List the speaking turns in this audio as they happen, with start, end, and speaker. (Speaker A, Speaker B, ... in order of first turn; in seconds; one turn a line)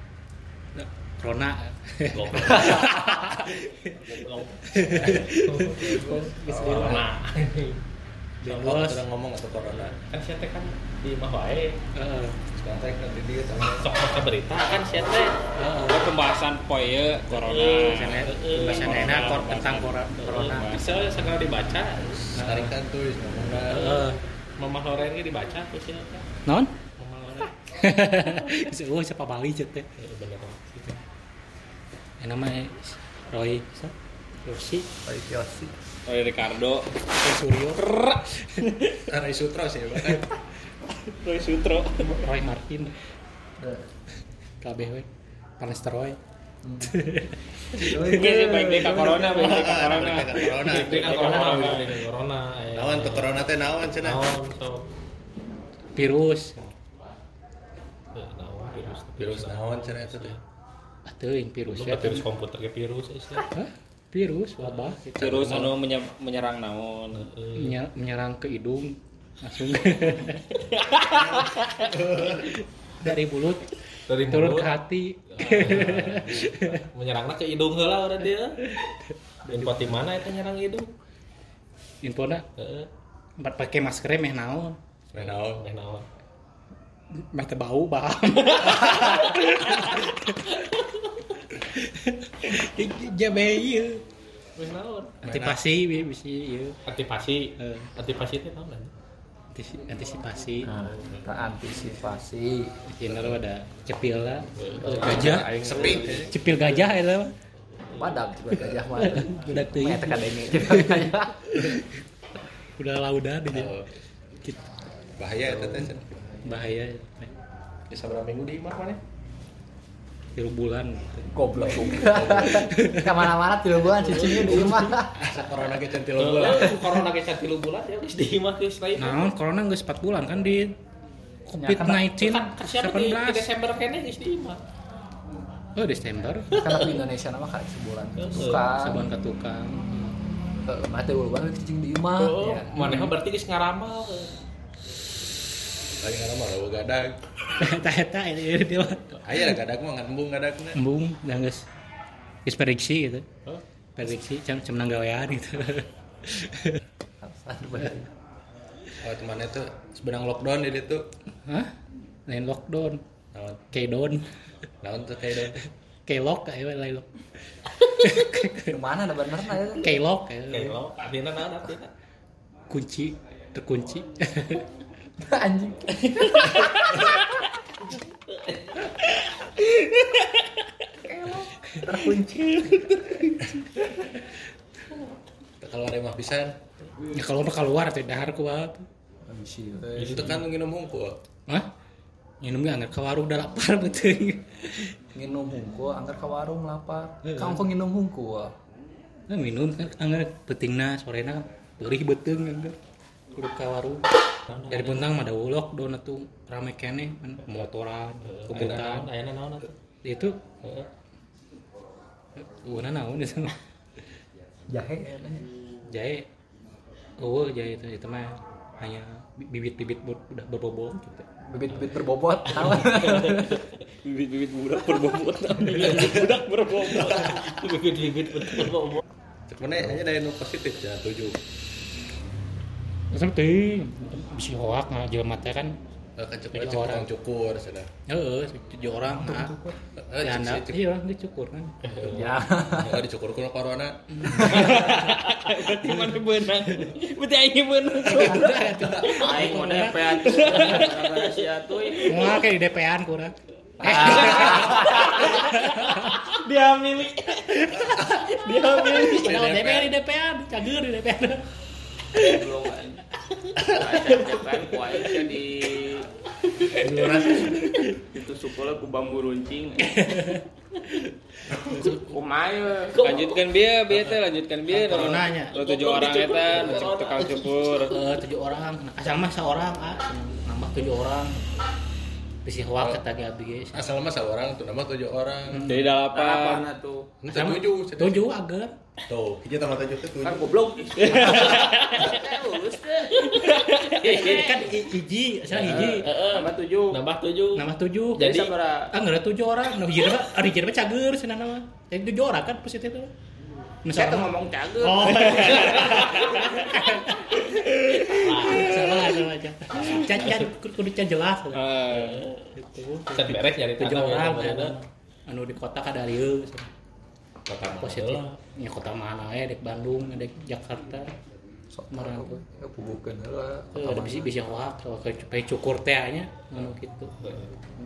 Speaker A: 0.7-4.0
Speaker B: 2.1-7.8
Speaker A: 4.7-7.1
Speaker C: 6.4-7.0
Speaker A: 8.4-9.0
Speaker C: 8.5-10.0
Speaker B: 9.7-11.8
Speaker A: 11.9-12.4
Speaker C: 12.5-13.9
Speaker B: 13.8-15.4
Speaker A: 15.5-16.1
Speaker D: 15.9-19.9
Speaker B: 17.3-19.6
Speaker A: 17.9-20.8
Speaker B: 20.2-22.4
Speaker A: 22.3-22.8
Speaker C: 22.4-23.9
Speaker A: 23.6-24.2
Speaker B: 23.7-26.2
Speaker A: 26.4-26.7
Speaker B: 27.0-27.5
Speaker A: 27.7-29.9
Speaker B: 30.0-30.9
Speaker A: 32.2-33.9
Speaker A: 34.4-34.9
Speaker E: 35.0-35.7
Speaker D: 36.1-36.9
Speaker A: 37.1-38.5
Speaker D: 37.8-39.0
Speaker C: 39.1-40.2
Speaker D: 41.2-42.1
Speaker A: 42.0-42.9
Speaker E: 43.6-43.9
Speaker A: 44.6-45.1
Speaker A: 45.6-46.2
Speaker E: 46.6-47.0
Speaker A: 46.8-48.2
Speaker E: 47.8-49.9
Speaker D: 48.1-51.9
Speaker C: 49.4-51.6
Speaker B: 50.4-53.4
Speaker C: 52.7-54.2
Speaker B: 54.0-54.9
Speaker A: 55.9-56.7
Speaker B: 58.1-60.4
Speaker C: 59.2-60.4
Speaker A: 61.0-62.3
Speaker B: 61.7-63.5
Speaker A: 63.5-65.7
Speaker D: 65.1-67.3
Speaker C: 65.2-65.8
Speaker B: 67.2-67.8
Speaker A: 67.5-70.5
Speaker D: 70.9-71.7
Speaker C: 71.1-72.5
Speaker A: 73.0-76.8
Speaker B: 74.1-74.7
Speaker B: 75.3-78.6
Speaker A: 79.4-79.9
Speaker B: 79.5-80.9
Speaker A: 82.0-82.5
Speaker B: 82.6-82.9
Speaker A: 83.4-84.8
Speaker C: 85.1-85.7
Speaker B: 85.2-86.0
Speaker A: 87.1-90.6
Speaker A: 91.5-94.0
Speaker B: 94.5-95.2
Speaker C: 95.2-95.6
Speaker A: 95.2-96.8
Speaker B: 96.8-98.9
Speaker A: 97.6-97.9
Speaker A: 99.5-100.7
Speaker E: 100.6-102.7
Speaker B: 100.8-101.2
Speaker A: 102.8-105.5
Speaker B: 104.5-106.5
Speaker E: 104.8-106.2
Speaker C: 105.4-106.3
Speaker A: 106.1-107.3
Speaker E: 107.9-111.7
Speaker A: 109.0-111.9
Speaker A: 112.8-113.7
Speaker C: 113.5-113.9
Speaker A: 114.4-114.7
Speaker C: 115.2-116.2
Speaker E: 115.6-115.9
Speaker A: 116.4-117.3
Speaker C: 117.9-119.0
Speaker A: 120.3-123.1
Speaker E: 121.3-125.1
Speaker C: 122.1-122.6
Speaker B: 124.0-124.7
Speaker A: 124.6-124.9
Speaker C: 125.2-126.8
Speaker B: 126.2-129.3
Speaker A: 128.9-130.8
Speaker A: 131.5-133.5
Speaker E: 131.5-132.1
Speaker B: 132.1-134.6
Speaker A: 135.8-136.5
Speaker B: 136.5-137.0
Speaker E: 136.5-139.0
Speaker B: 138.2-138.7
Speaker A: 138.7-140.1
Speaker E: 140.6-143.1
Speaker B: 142.1-144.3
Speaker A: 142.8-143.1
Speaker C: 146.0-147.2
Speaker A: 147.6-149.2
Speaker C: 149.2-150.8
Speaker A: 150.7-151.7
Speaker A: 152.4-153.2
Speaker A: 153.9-156.8
Speaker E: 157.2-158.1
Speaker C: 159.0-161.1
Speaker A: 161.4-161.7
Speaker A: 162.3-163.0
Speaker C: 163.3-163.7
Speaker A: 163.7-164.2
Speaker C: 164.8-165.6
Speaker A: 166.1-167.1
Speaker A: 167.8-168.7
Speaker E: 168.7-169.9
Speaker A: 169.8-170.8
Speaker B: 170.5-171.9
Speaker A: 172.7-174.7
Speaker E: 175.2-177.3
Speaker B: 178.5-178.7
Speaker E: 181.1-183.0
Speaker C: 185.6-186.5
Speaker A: 187.1-188.8
Speaker E: 189.3-190.4
Speaker C: 190.0-191.2
Speaker B: 190.0-190.3
Speaker A: 192.4-194.9
Speaker E: 195.1-198.5
Speaker A: 199.3-202.8
Speaker A: 203.3-204.1
Speaker B: 204.5-205.1
Speaker A: 204.7-209.1
Speaker B: 208.2-209.7
Speaker A: 210.0-210.4
Speaker B: 210.6-210.9
Speaker A: 212.3-213.6
Speaker E: 214.7-215.5
Speaker A: 215.9-216.3
Speaker A: 217.2-221.2
Speaker E: 221.4-223.6
Speaker B: 222.6-223.3
Speaker D: 224.0-227.0
Speaker B: 225.6-229.0
Speaker C: 229.5-231.4
Speaker A: 233.1-235.8
Speaker C: 236.2-237.9
Speaker A: 236.5-237.1
Speaker A: 238.1-239.6
Speaker E: 239.1-239.8
Speaker C: 239.9-240.8
Speaker A: 240.2-241.7
Speaker B: 241.8-242.3
Speaker E: 242.0-243.0
Speaker C: 242.2-244.6
Speaker A: 244.1-245.0
Speaker D: 244.5-252.4
Speaker A: 248.0-250.8
Speaker F: 250.0-252.0
Speaker B: 250.4-251.0
Speaker A: 252.1-256.2
Speaker B: 253.9-255.2
Speaker D: 253.9-259.2
Speaker A: 258.8-261.4
Speaker C: 258.9-259.9
Speaker F: 262.2-263.0
Speaker F: 263.6-266.1
Speaker C: 266.8-267.8
Speaker A: 267.3-267.8
Speaker D: 267.5-267.9
Speaker F: 268.0-269.9
Speaker A: 269.9-270.4
Speaker A: 271.0-272.0
Speaker F: 272.0-273.3
Speaker B: 273.0-273.5
Speaker D: 273.0-277.9
Speaker A: 274.7-275.6
Speaker B: 275.5-277.9
Speaker A: 277.9-281.4
Speaker A: 282.4-283.9
Speaker C: 283.7-285.6
Speaker A: 285.5-285.9
Speaker D: 285.7-286.8
Speaker F: 286.1-286.9
Speaker C: 287.2-288.3
Speaker A: 287.3-288.7
Speaker C: 289.1-290.4
Speaker F: 290.2-293.2
Speaker D: 291.0-292.6
Speaker D: 293.2-294.6
Speaker B: 293.3-293.7
Speaker F: 293.9-294.5
Speaker A: 294.0-296.1
Speaker B: 295.5-298.5
Speaker F: 295.6-297.0
Speaker D: 295.9-296.6
Speaker A: 297.5-298.3
Speaker F: 298.2-298.9
Speaker A: 298.9-303.1
Speaker A: 303.8-311.6
Speaker F: 303.9-306.2
Speaker D: 305.5-306.8
Speaker B: 308.0-309.2
Speaker B: 309.8-310.5
Speaker D: 311.5-312.3
Speaker B: 311.9-312.5
Speaker A: 312.4-316.7
Speaker B: 313.1-314.8
Speaker B: 317.4-318.3
Speaker A: 317.6-321.1
Speaker E: 321.7-324.3
Speaker A: 321.9-322.4
Speaker A: 323.7-327.1
Speaker B: 327.2-327.5